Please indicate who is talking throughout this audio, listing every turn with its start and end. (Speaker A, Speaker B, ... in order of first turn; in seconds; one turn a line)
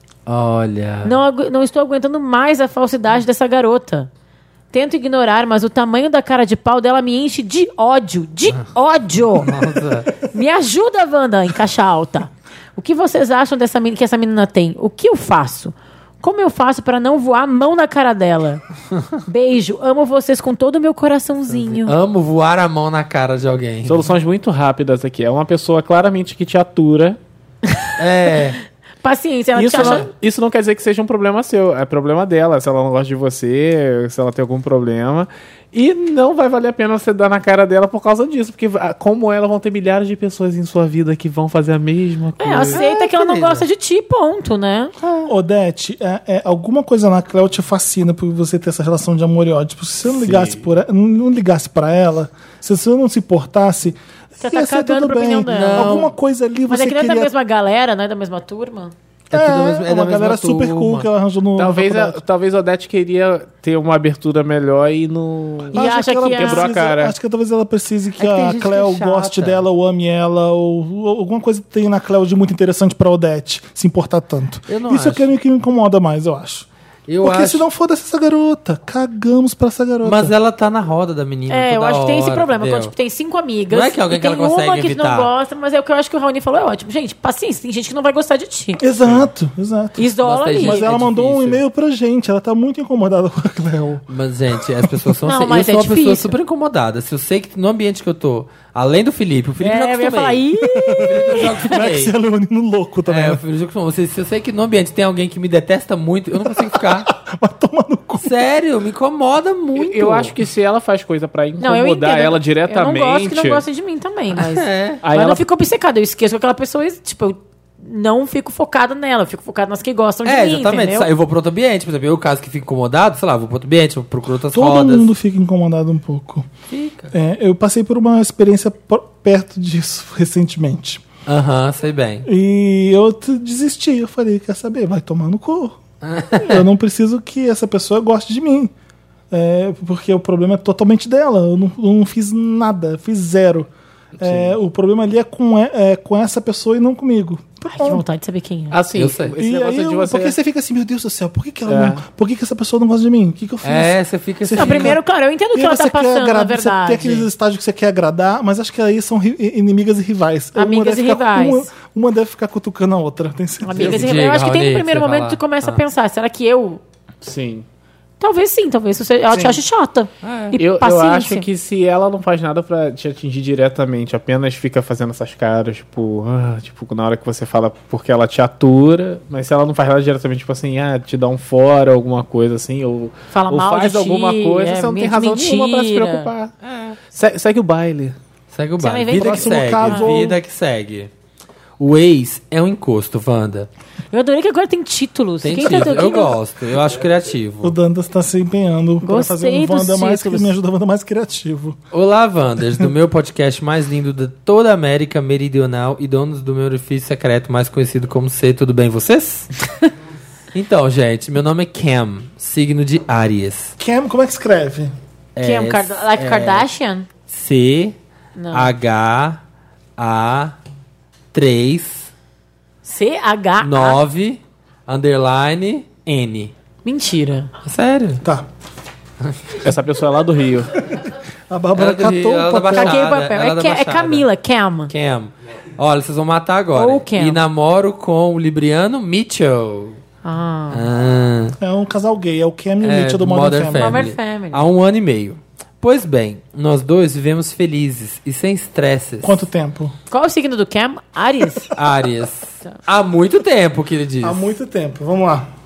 Speaker A: 0.3-1.2
Speaker B: 1.0-4.1
Speaker B: 4.7-9.5
Speaker A: 9.4-10.2
Speaker B: 10.3-18.6
Speaker B: 19.3-21.9
Speaker A: 21.5-24.1
Speaker C: 23.9-27.2
Speaker A: 28.0-28.6
Speaker B: 29.0-30.1
Speaker C: 29.6-43.6
Speaker A: 29.8-30.0
Speaker B: 42.4-45.0
Speaker D: 45.3-57.3
Speaker C: 50.1-50.6
Speaker B: 54.4-56.0
Speaker A: 55.5-56.1
Speaker B: 56.7-58.9
Speaker A: 59.3-61.1
Speaker D: 59.3-62.2
Speaker C: 61.6-65.8
Speaker D: 65.7-76.7
Speaker B: 65.7-66.7
Speaker C: 66.3-67.1
Speaker A: 68.2-69.7
Speaker A: 74.7-75.3
Speaker A: 77.1-77.6
Speaker D: 77.2-80.3
Speaker A: 80.0-82.9
Speaker B: 81.5-88.8
Speaker A: 83.7-85.3
Speaker D: 88.8-94.0
Speaker B: 90.0-90.8
Speaker A: 90.2-91.6
Speaker A: 94.1-100.4
Speaker B: 95.3-96.3
Speaker B: 99.6-101.8
Speaker D: 100.7-103.4
Speaker A: 101.0-102.1
Speaker A: 103.1-107.1
Speaker D: 106.5-108.3
Speaker A: 108.2-110.3
Speaker C: 109.8-113.6
Speaker B: 111.6-121.1
Speaker A: 114.4-115.0
Speaker C: 115.0-115.4
Speaker A: 120.2-125.1
Speaker D: 124.5-126.5
Speaker A: 126.7-127.1
Speaker D: 127.1-131.0
Speaker A: 131.3-132.3
Speaker D: 132.2-135.8
Speaker A: 136.0-136.7
Speaker D: 136.4-138.7
Speaker D: 139.3-148.0
Speaker C: 144.2-144.6
Speaker B: 147.7-148.8
Speaker C: 148.7-150.4
Speaker A: 149.0-149.3
Speaker D: 149.4-155.0
Speaker C: 151.7-152.0
Speaker A: 153.6-155.0
Speaker B: 154.6-157.3
Speaker D: 155.5-164.0
Speaker B: 160.6-161.7
Speaker B: 163.6-166.8
Speaker A: 163.8-165.8
Speaker C: 167.2-167.7
Speaker B: 168.2-171.5
Speaker C: 169.3-169.6
Speaker A: 170.2-170.6
Speaker C: 170.6-186.5
Speaker B: 183.3-186.3
Speaker A: 186.6-187.0
Speaker C: 187.1-188.2
Speaker A: 188.5-191.1
Speaker B: 188.8-190.2
Speaker D: 189.1-190.4
Speaker A: 191.8-193.7
Speaker B: 194.1-196.3
Speaker A: 195.4-197.8
Speaker D: 197.6-201.8
Speaker B: 199.0-200.5
Speaker A: 201.9-209.5
Speaker A: 210.5-213.7
Speaker D: 213.8-214.9
Speaker A: 215.4-216.7
Speaker B: 215.4-217.1
Speaker A: 217.3-218.0
Speaker B: 218.4-218.7
Speaker A: 218.5-219.4
Speaker A: 220.0-220.6
Speaker A: 221.3-222.1
Speaker B: 222.8-224.0
Speaker A: 223.6-226.5
Speaker B: 226.8-227.5
Speaker A: 227.6-228.2
Speaker D: 228.2-228.5
Speaker A: 229.3-229.6
Speaker C: 229.6-230.9
Speaker D: 231.5-233.0
Speaker A: 231.8-234.3
Speaker B: 232.7-234.9
Speaker A: 234.9-240.0
Speaker B: 236.8-237.4
Speaker B: 240.2-240.8
Speaker A: 240.7-241.6
Speaker D: 241.6-244.1
Speaker A: 242.8-249.4
Speaker B: 243.8-244.6
Speaker D: 249.2-249.9
Speaker B: 250.1-251.7
Speaker A: 251.7-254.5
Speaker D: 254.2-255.5